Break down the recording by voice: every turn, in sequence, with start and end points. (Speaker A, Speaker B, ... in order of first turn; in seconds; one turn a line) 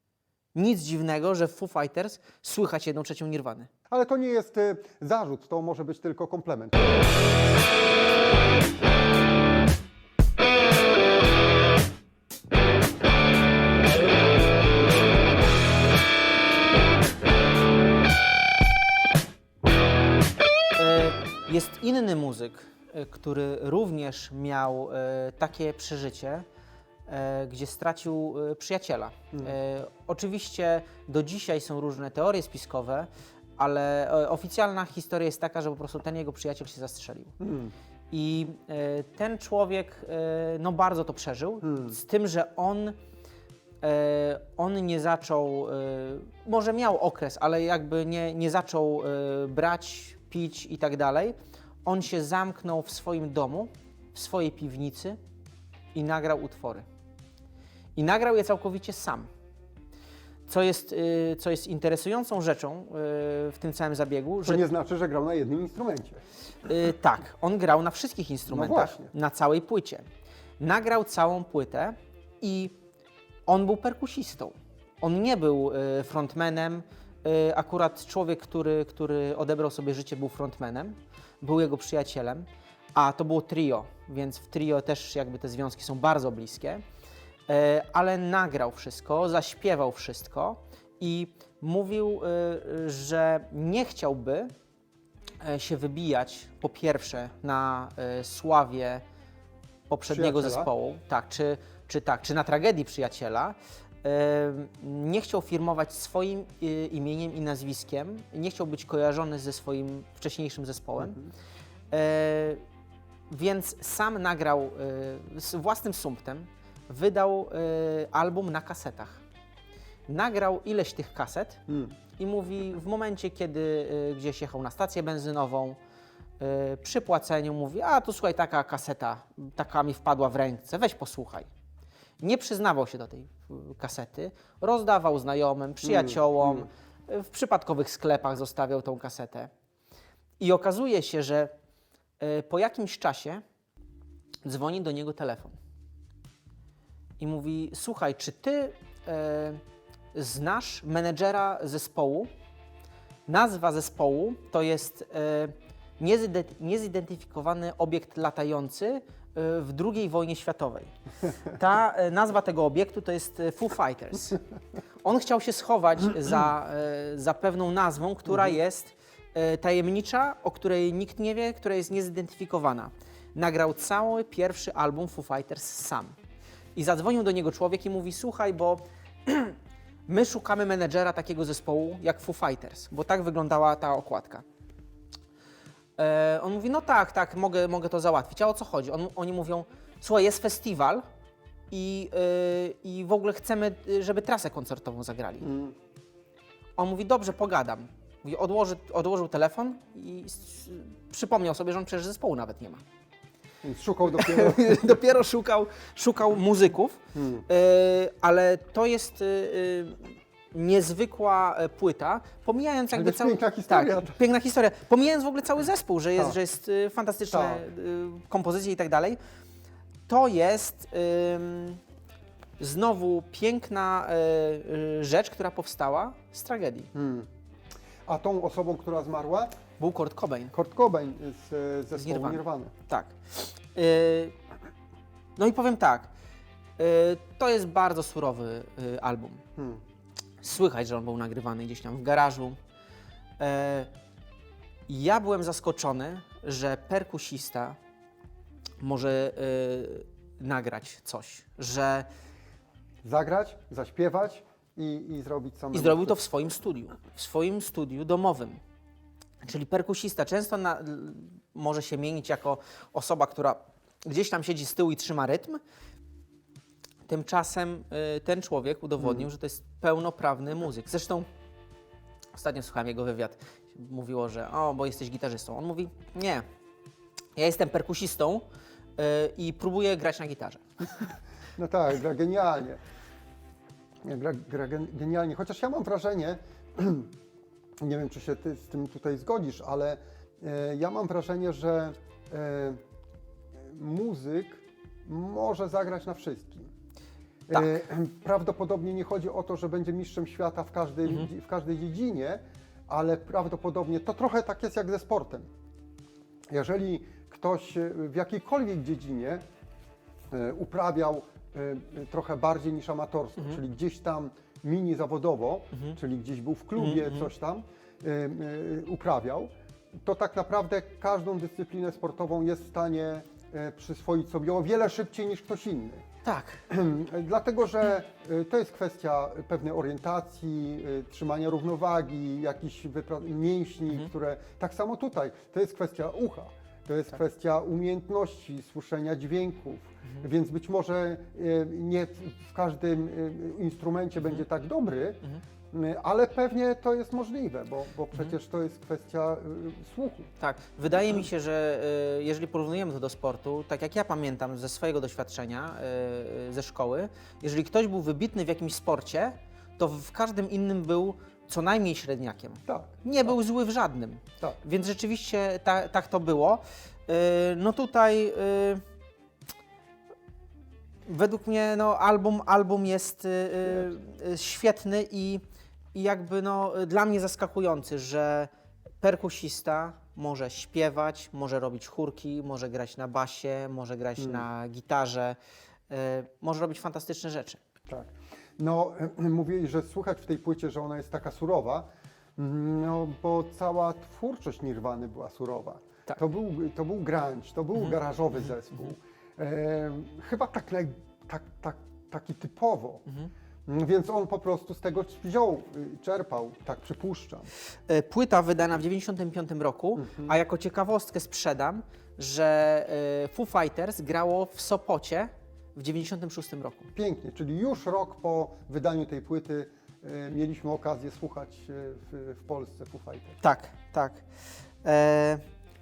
Speaker A: 0.6-3.7
Speaker B: 3.9-7.1
Speaker A: 20.8-26.4
Speaker A: 27.1-37.4
Speaker B: 37.4-37.7
Speaker A: 38.1-43.0
Speaker B: 41.6-42.0
Speaker A: 43.8-55.2
Speaker A: 55.9-56.9
Speaker A: 58.0-59.3
Speaker A: 60.5-64.7
Speaker B: 64.4-66.2
Speaker A: 66.6-70.0
Speaker B: 68.5-69.1
Speaker A: 70.6-72.7
Speaker A: 73.5-86.8
Speaker A: 87.5-94.5
Speaker A: 95.4-99.0
Speaker A: 99.9-111.2
Speaker B: 100.1-100.7
Speaker B: 111.0-111.3
Speaker A: 111.9-112.6
Speaker A: 113.3-119.2
Speaker A: 120.1-121.6
Speaker B: 121.7-122.0
Speaker A: 122.2-125.8
Speaker A: 126.4-131.5
Speaker A: 132.2-139.5
Speaker B: 135.8-136.7
Speaker A: 140.4-141.5
Speaker A: 142.2-143.4
Speaker A: 144.4-145.6
Speaker A: 147.2-149.6
Speaker A: 150.1-152.3
Speaker A: 153.3-160.9
Speaker A: 161.4-164.4
Speaker A: 165.0-176.2
Speaker A: 176.8-184.4
Speaker A: 186.0-191.1
Speaker A: 191.7-195.5
Speaker B: 195.4-195.8
Speaker A: 196.8-202.8
Speaker B: 203.6-205.0
Speaker A: 204.1-219.2
Speaker B: 207.1-207.5
Speaker B: 212.9-214.2
Speaker B: 217.3-217.7
Speaker A: 220.1-221.8
Speaker A: 222.6-226.9
Speaker B: 226.9-227.3
Speaker B: 228.1-229.5
Speaker A: 229.8-230.5
Speaker B: 230.5-232.7
Speaker A: 232.0-234.4
Speaker A: 235.4-236.1
Speaker A: 236.8-239.4
Speaker B: 239.6-239.8
Speaker A: 240.4-242.6
Speaker A: 243.4-243.9
Speaker A: 244.9-247.8
Speaker A: 248.8-252.1
Speaker B: 253.0-256.2
Speaker A: 255.7-258.6
Speaker A: 259.4-265.6
Speaker A: 267.1-271.3
Speaker A: 272.3-276.4
Speaker A: 277.4-278.4
Speaker A: 279.0-281.1
Speaker B: 281.6-282.8
Speaker B: 284.0-287.1
Speaker B: 287.8-292.8
Speaker B: 293.6-296.7
Speaker B: 297.5-305.5
Speaker A: 297.5-297.8
Speaker B: 306.5-309.4
Speaker B: 310.3-326.0
Speaker A: 316.8-317.3
Speaker A: 326.2-326.6
Speaker B: 326.7-350.3
Speaker A: 350.4-368.8
Speaker B: 362.7-363.0
Speaker A: 371.1-375.4
Speaker A: 375.9-385.4
Speaker B: 384.2-384.4
Speaker A: 385.9-387.6
Speaker B: 387.9-391.9
Speaker B: 392.4-403.1
Speaker A: 397.8-398.9
Speaker B: 403.7-407.5
Speaker A: 407.9-416.9
Speaker B: 410.0-410.3
Speaker B: 416.9-423.4
Speaker A: 423.4-424.2
Speaker A: 424.8-425.4